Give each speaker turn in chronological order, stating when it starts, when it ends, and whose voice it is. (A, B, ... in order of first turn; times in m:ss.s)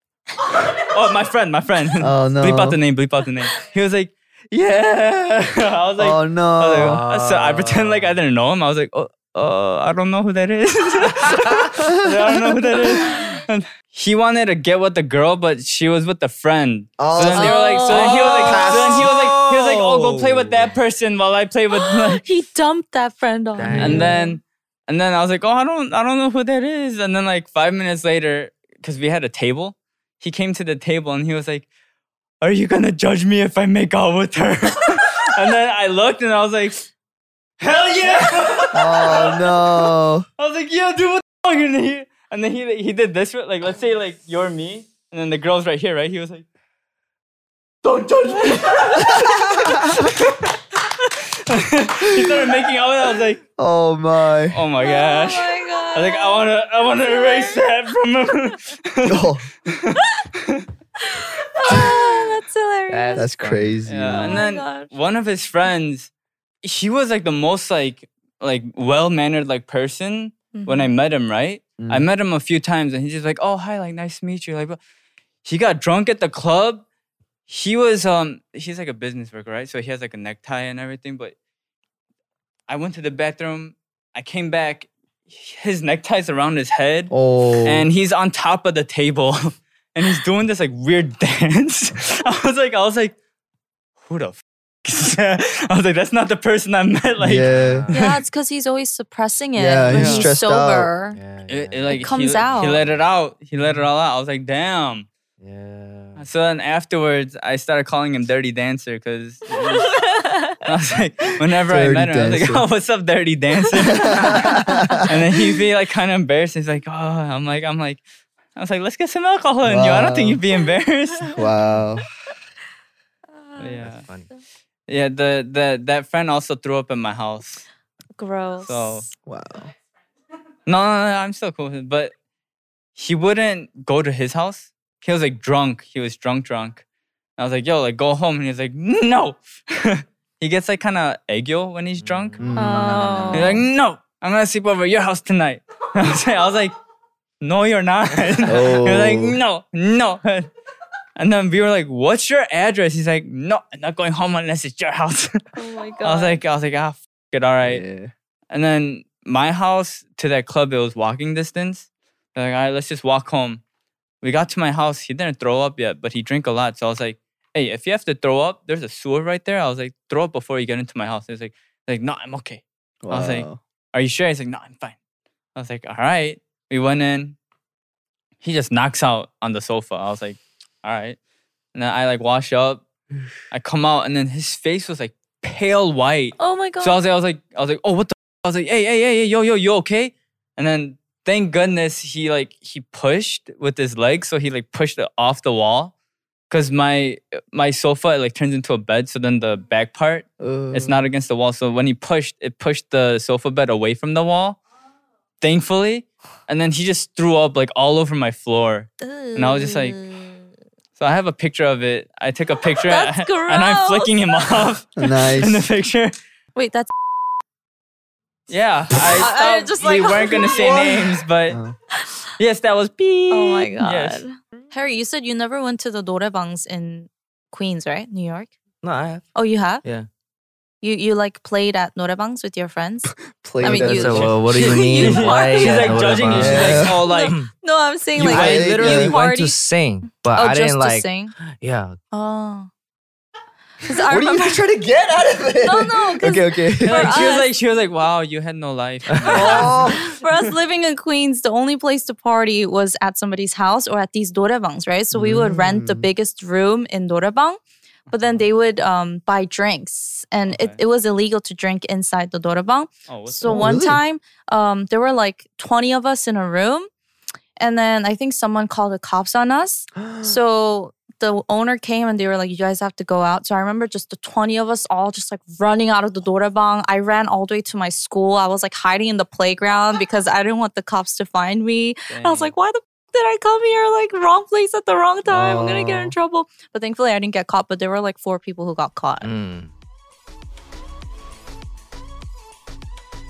0:00.8-0:22.2 A
0:02.0-0:02.8 B
0:06.0-0:07.0 B
0:06.8-0:08.2 C
0:12.1-0:12.3 B
0:12.9-0:13.2 D
0:17.0-0:19.2 B
0:17.3-0:18.6 D
0:18.1-0:20.8 C
0:21.7-0:24.4 D
0:23.6-0:24.2 C
0:23.7-0:24.0 B
0:23.8-0:31.7 A
0:32.4-0:36.9 A
0:37.6-0:39.9 A
0:38.7-0:40.3 B
0:40.4-0:46.4 A
0:47.8-0:53.4 A
0:49.0-0:50.1 B
0:52.1-0:52.5 B
0:53.6-0:54.6 B
0:54.5-1:00.6 A
0:54.8-0:56.4 D
0:57.0-0:57.6 D
0:59.0-0:59.5 B
1:01.1-1:03.3 D
1:02.9-1:03.8 C
1:03.2-1:04.4 B
1:03.9-1:06.1 A
1:04.1-1:04.9 D
1:06.6-1:14.8 A
1:10.5-1:10.9 D
1:11.8-1:12.1 B
1:15.4-1:16.8 A
1:17.5-1:21.4 A
1:22.7-1:27.1 A
1:27.1-1:27.9 B
1:27.6-1:33.2 A
1:34.1-1:38.1 A
1:37.2-1:37.9 B
1:37.3-1:38.0 C
1:37.9-1:41.2 D
1:39.6-1:40.9 B
1:39.9-1:40.3 A
1:41.1-1:43.1 C
1:41.5-1:45.1 A
1:41.9-1:42.8 D
1:43.6-1:43.9 C
1:45.4-1:46.3 C
1:46.2-1:54.5 A
1:49.8-1:50.6 D
1:51.7-1:52.6 B
1:53.8-1:55.1 B
1:54.7-1:55.0 D
1:55.1-1:58.0 A
1:58.6-2:01.5 A
1:59.6-2:00.4 B
2:01.3-2:02.1 B
2:03.4-2:04.4 D
2:03.6-2:04.0 A
2:03.8-2:04.3 C
2:04.9-2:07.6 A
2:08.2-2:09.1 D
2:08.6-2:09.0 A
2:09.3-2:09.7 B
2:10.7-2:12.1 A
2:13.0-2:16.8 A
2:17.4-2:22.5 A
2:22.0-2:23.6 C
2:22.4-2:23.6 B
2:22.6-2:23.6 D
2:23.3-2:26.8 A
2:27.4-2:30.5 A
2:28.4-2:29.4 B
2:31.2-2:35.4 A
2:35.6-2:36.4 D
2:36.0-2:37.8 A
2:37.6-2:38.1 B
2:38.5-2:43.6 A
2:44.2-2:55.0 A
2:53.0-2:53.6 B
2:55.6-2:57.4 A
2:58.4-3:01.2 A
3:01.7-3:02.8 A
3:03.5-3:15.9 A
3:06.4-3:07.0 D
3:16.5-3:24.6 A
3:20.4-3:21.0 B
3:25.4-3:30.0 A
3:29.0-3:30.4 D
3:31.0-3:36.1 A
3:32.9-3:34.4 D
3:35.0-3:35.7 B
3:36.6-3:36.9 D
3:38.5-3:41.6 A
3:39.2-3:41.0 D
3:40.5-3:40.9 B
3:41.5-3:41.8 B
3:42.4-3:44.2 A
3:43.3-3:48.5 D
3:48.8-3:50.1 C
3:49.4-3:49.8 D
3:50.8-3:59.6 D
3:53.3-3:54.4 B
3:53.6-3:57.5 C
3:54.5-3:57.4 A
3:56.3-3:57.0 B
3:58.2-3:59.2 B
3:58.2-4:02.0 C
4:00.3-4:01.3 D
4:02.1-4:02.7 D
4:03.9-4:04.6 D
4:04.1-4:07.2 B
4:05.6-4:07.5 D
4:06.8-4:10.0 A
4:09.1-4:09.7 C
4:09.3-4:10.0 B
4:09.4-4:26.9 D
4:15.1-4:16.1 B
4:18.2-4:18.4 A
4:20.5-4:20.8 A
4:23.1-4:23.7 A
4:23.5-4:24.0 B
4:27.6-4:49.3 D
4:30.0-4:30.4 B
4:42.1-4:42.5 A
4:45.3-4:46.2 B
4:49.2-4:49.7 C